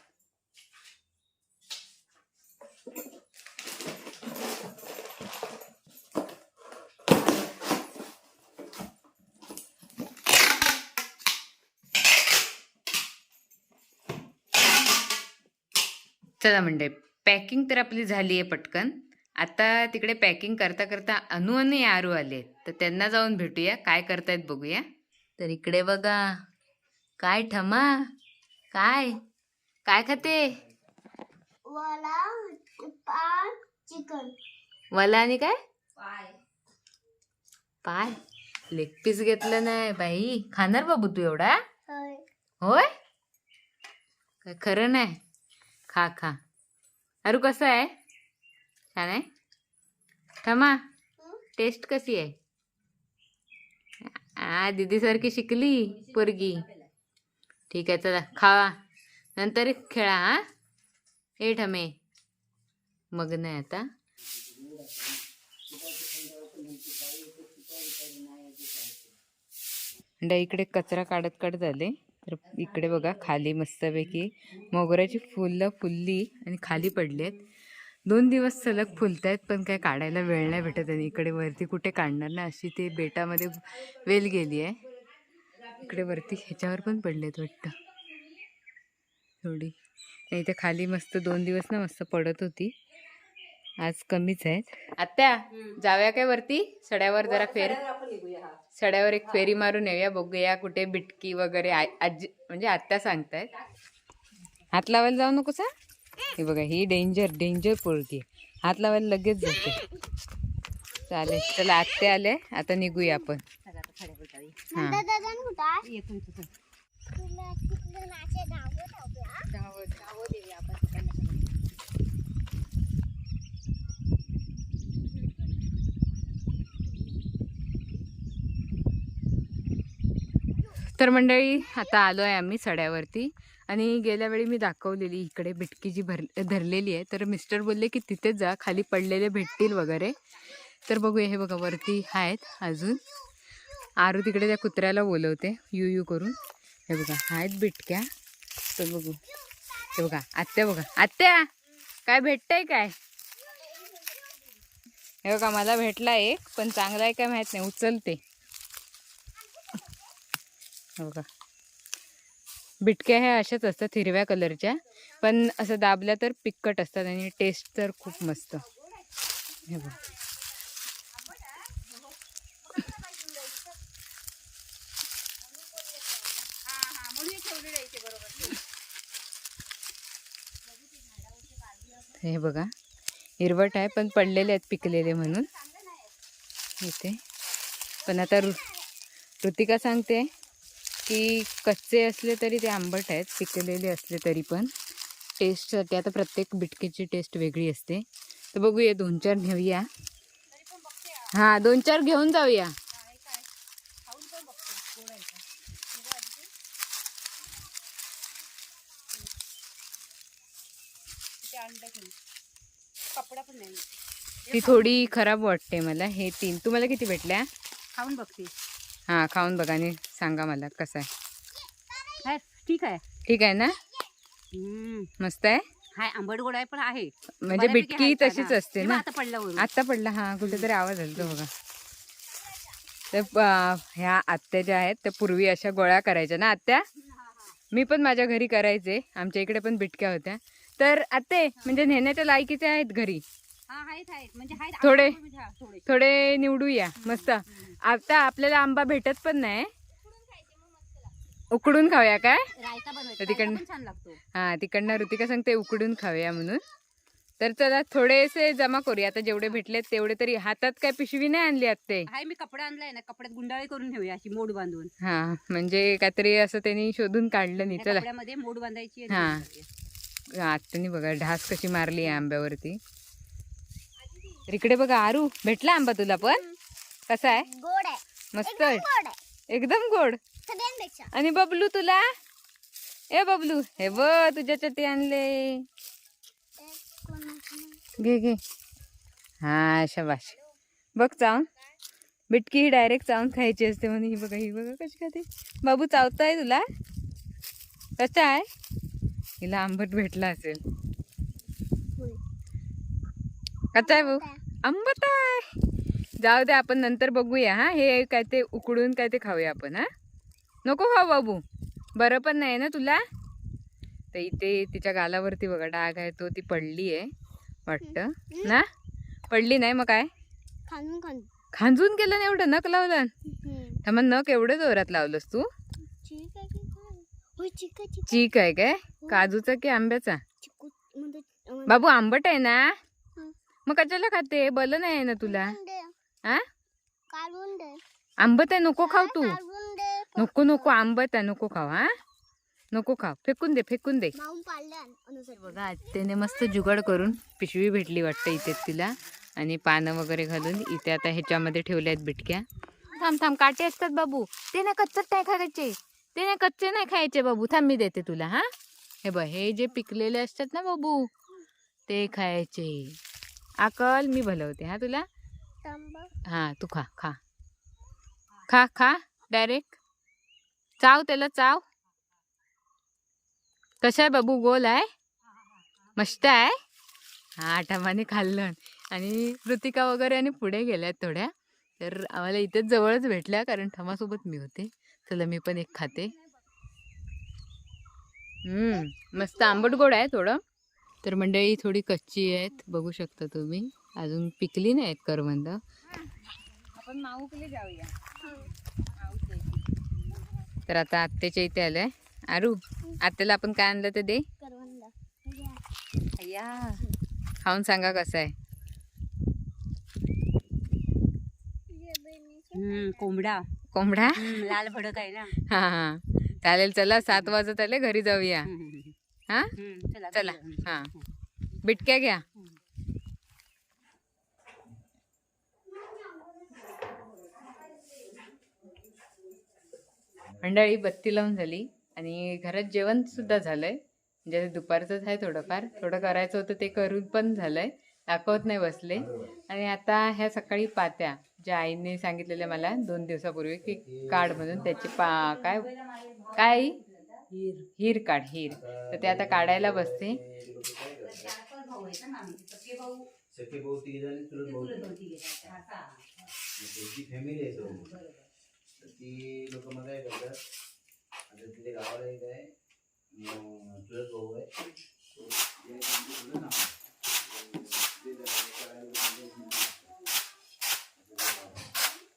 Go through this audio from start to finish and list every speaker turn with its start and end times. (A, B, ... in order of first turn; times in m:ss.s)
0:16.4-0:24.8 A
0:25.4-0:26.4 A
0:27.2-0:28.1 A
0:28.7-0:29.2 A
0:29.9-0:30.6 A
0:31.7-0:34.4 B
0:34.9-0:35.6 A
0:36.0-0:36.3 C
0:37.8-0:38.2 A
0:38.7-0:41.6 A
0:41.9-0:42.2 B
0:42.6-0:42.9 A
0:44.4-0:45.2 A
0:45.9-0:46.4 A
0:47.3-0:47.9 A
0:49.0-0:49.3 A
0:50.4-0:50.8 A
0:51.6-0:52.3 A
0:54.2-0:56.6 A
0:56.0-0:56.8 C
0:57.7-0:58.8 A
0:59.4-1:00.4 A
1:01.4-1:01.9 A
1:03.1-1:03.9 A
1:05.8-1:08.9 C
1:10.2-1:17.4 A
1:18.1-1:24.8 A
1:25.8-1:27.8 A
1:29.4-1:29.7 A
1:30.3-1:32.7 A
1:33.8-1:37.8 A
1:37.2-1:38.6 C
1:38.8-1:43.5 A
1:44.7-1:45.7 A
1:46.4-1:49.8 A
1:51.1-1:53.4 A
1:53.6-1:54.6 C
1:54.7-1:55.9 B
1:54.7-1:55.0 A
1:55.9-1:56.5 C
1:57.1-1:59.5 B
1:59.5-2:00.0 A
2:00.0-2:01.5 C
2:10.9-2:20.2 A
2:20.9-2:23.0 A
2:24.0-2:26.4 A
2:26.9-2:28.1 A
2:28.7-2:29.2 A
2:29.9-2:31.5 A
2:32.1-2:32.9 A
2:33.8-2:34.1 B
2:35.3-2:38.2 A
2:41.0-2:41.2 A
2:42.8-2:48.7 A
2:49.7-2:50.0 A
2:51.3-2:51.9 C
2:56.7-2:58.6 C
3:02.2-3:02.7 A
3:03.4-3:05.5 A
3:05.6-3:05.9 C
3:06.8-3:07.2 A
3:08.0-3:08.8 A
3:09.4-3:10.3 A
3:11.1-3:14.7 A
3:15.4-3:19.9 A
3:21.3-3:22.7 A
3:24.1-3:25.4 C
3:26.0-3:26.3 C
3:31.4-3:32.1 C
3:33.2-3:33.8 C
3:34.5-3:35.0 C
3:34.5-3:37.5 A
3:38.0-3:38.5 C
3:39.1-3:41.1 A
3:42.2-3:43.0 C
3:43.3-3:43.8 A
3:44.5-3:45.1 C
3:45.2-3:45.6 A
3:46.0-3:49.7 C
3:47.4-3:49.0 A
3:49.6-3:51.5 A
3:50.4-3:51.3 C
3:53.1-3:56.9 A
3:57.1-3:57.6 C
3:57.7-4:03.2 A
4:01.6-4:01.8 C
4:03.7-4:06.3 C
4:04.8-4:05.2 A
4:05.9-4:09.7 A
4:07.0-4:07.8 C
4:11.5-4:12.5 A
4:12.6-4:14.2 C
4:13.2-4:13.6 A
4:14.4-4:16.6 A
4:17.4-4:22.1 A
4:22.1-4:24.9 C
4:25.0-4:28.1 A
4:27.7-4:29.7 C
4:29.1-4:29.4 A
4:30.3-4:32.8 A
4:34.5-4:36.4 A
4:36.2-4:36.6 B
4:37.1-4:37.5 A
4:37.3-4:39.2 B
4:38.4-4:38.9 A
4:39.5-4:40.2 A
4:40.4-4:41.1 B
4:41.1-4:42.1 A
4:43.1-4:45.7 A
4:46.6-4:47.8 B
4:48.0-4:48.4 A
4:49.4-4:50.4 A
4:51.0-4:51.5 A
4:52.3-4:56.6 A
4:58.0-4:58.5 A
4:59.4-5:00.6 A
5:03.8-5:05.5 A
5:03.8-5:04.4 B
5:06.2-5:09.9 A
5:10.6-5:11.4 A
5:12.0-5:13.0 A
5:14.1-5:17.1 A
5:17.7-5:18.7 A
5:17.8-5:18.6 B
5:19.3-5:20.1 A
5:20.7-5:21.3 B
5:21.6-5:23.1 A
5:23.2-5:23.8 B
5:23.8-5:25.5 A
5:25.8-5:28.3 B
5:28.1-5:30.2 A
5:30.4-5:31.8 B
5:31.7-5:32.8 A
5:33.7-5:35.6 A
5:35.2-5:35.9 B
5:37.1-5:37.8 B
5:38.2-5:39.4 A
5:38.8-5:40.7 B
5:40.2-5:41.9 A
5:42.7-5:44.2 A
5:44.2-5:45.6 B
5:45.4-5:58.5 A
5:59.0-6:01.1 A
6:01.9-6:03.0 A
6:03.6-6:05.1 A
6:05.6-6:06.1 B
6:06.3-6:07.2 A
6:08.5-6:09.8 A
6:10.8-6:11.6 A
6:13.8-6:14.9 A
6:16.0-6:16.6 A
6:17.4-6:26.1 A
6:28.5-6:30.4 A
6:31.0-6:35.6 A
6:36.8-6:39.6 C
6:38.2-6:38.5 B
6:40.7-6:44.3 A
6:44.4-6:45.6 B
6:46.2-6:46.8 C
6:47.4-6:48.3 A
6:51.7-6:53.1 B
6:52.6-6:53.4 C
6:53.7-6:54.5 A
6:54.2-6:55.4 C
6:55.5-6:58.5 A
6:58.5-6:59.0 C
6:59.6-7:01.0 C
7:00.1-7:00.9 A
7:01.6-7:02.2 A
7:10.4-7:25.7 A
7:19.0-7:19.4 D
7:23.6-7:24.8 D
7:24.5-7:27.6 C
7:26.4-7:26.7 A
7:27.8-7:30.2 A
7:28.5-7:31.3 D
7:31.0-7:33.1 C
7:33.3-7:34.9 D
7:34.4-7:36.0 C
7:36.4-7:37.9 D
7:37.6-7:38.3 C
7:38.8-7:40.4 D
7:41.3-7:42.5 D
7:43.1-7:44.5 D
7:45.2-7:46.7 D
7:47.4-7:50.0 D
7:51.0-7:51.7 D